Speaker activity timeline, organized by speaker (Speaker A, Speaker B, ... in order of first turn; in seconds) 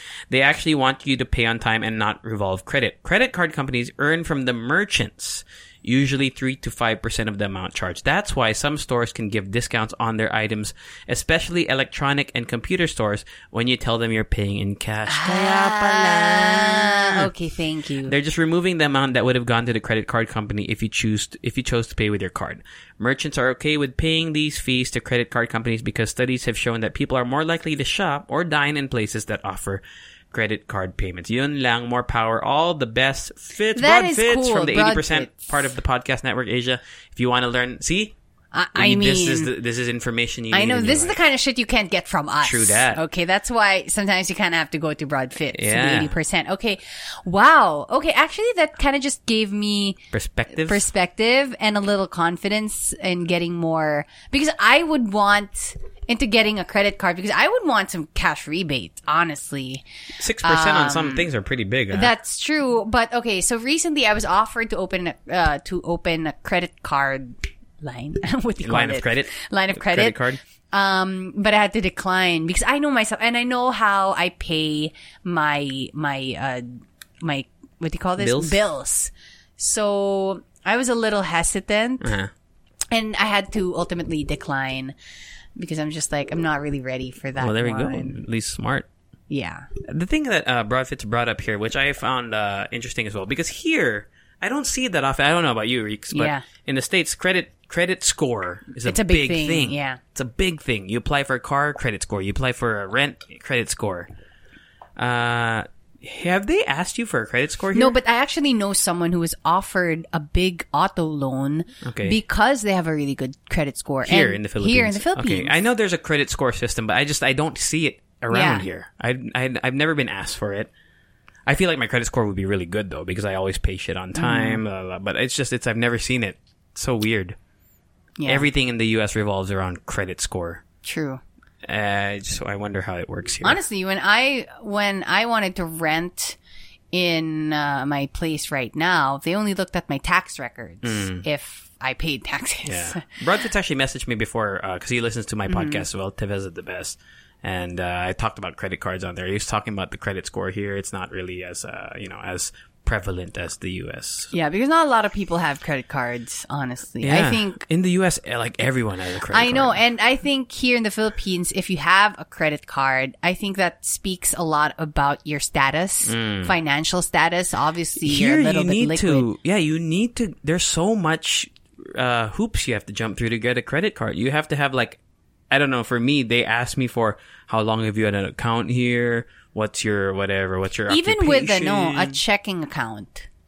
Speaker A: 0.3-17.3, 18.1-38.1, 38.8-41.2, 42.4-43.0, 45.5-46.1, 50.1-50.8, 60.2-62.1, 68.6-70.4, 78.2-78.6, 82.0-82.3, 87.4-88.9, 89.8-104.1, 105.0-108.0, 111.8-112.2, 114.0-120.7, 121.5-127.4, 128.2-130.6, 131.6-133.6, 140.8-141.2, 142.6-154.3, 157.0-159.8, 166.1-166.5, 168.0-175.0, 175.5-182.2
Speaker B: 15.1-18.1, 33.8-35.4, 38.5-39.5, 40.5-50.0, 50.5-59.8, 60.4-61.3, 61.9-70.2, 70.7-82.2, 82.9-84.9, 85.6-88.2, 89.3-89.7, 96.1-96.4, 98.8-100.0, 107.8-115.5, 118.3-118.6, 124.1-124.6, 128.2-128.5, 130.8-131.2, 133.4-136.4, 136.9-143.0, 145.5-145.8, 154.3-157.6, 159.3-169.2, 180.9-183.3